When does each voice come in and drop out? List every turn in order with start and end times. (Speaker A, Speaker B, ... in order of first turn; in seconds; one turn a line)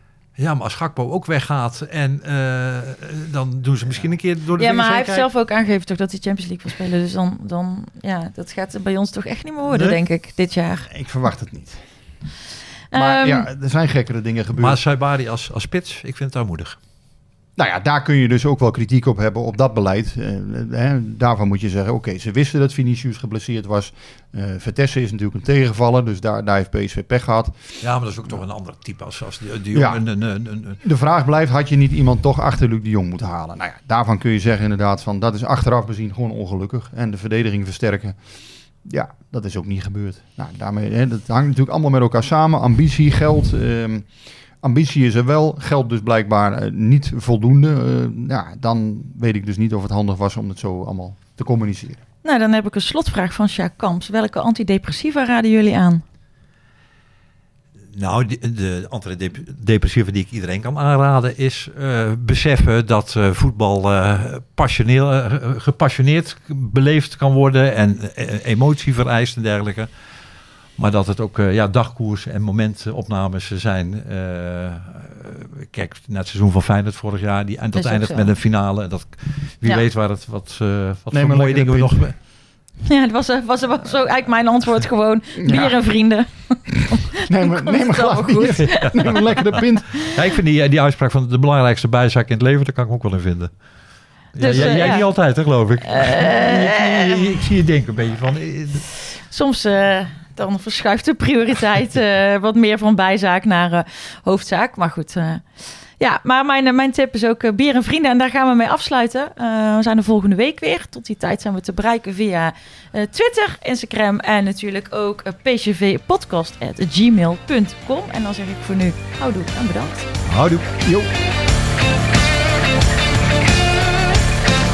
Speaker A: 0.4-5.3
Speaker B: 4.6-10.9
Speaker C: 10.9-11.8
Speaker B: 12.9-13.5
Speaker C: 12.9-14.8
Speaker A: 14.6-16.8
Speaker C: 17.6-27.6
Speaker A: 27.8-30.8
Speaker C: 29.7-30.0
Speaker C: 30.8-38.2
Speaker C: 38.8-44.1
Speaker C: 44.6-52.0
Speaker B: 52.2-56.0
Speaker A: 58.0-69.9
Speaker A: 70.8-82.2
Speaker B: 77.8-78.3
Speaker C: 81.1-82.0
Speaker B: 82.9-89.5
Speaker C: 85.4-85.8
Speaker C: 87.2-90.1
Speaker A: 90.0-93.5
Speaker A: 94.3-98.8
Speaker B: 94.4-95.1
Speaker B: 95.9-97.2
Speaker B: 99.3-105.4
Speaker B: 106.0-120.1
Speaker A: 120.3-120.7
Speaker C: 120.8-121.1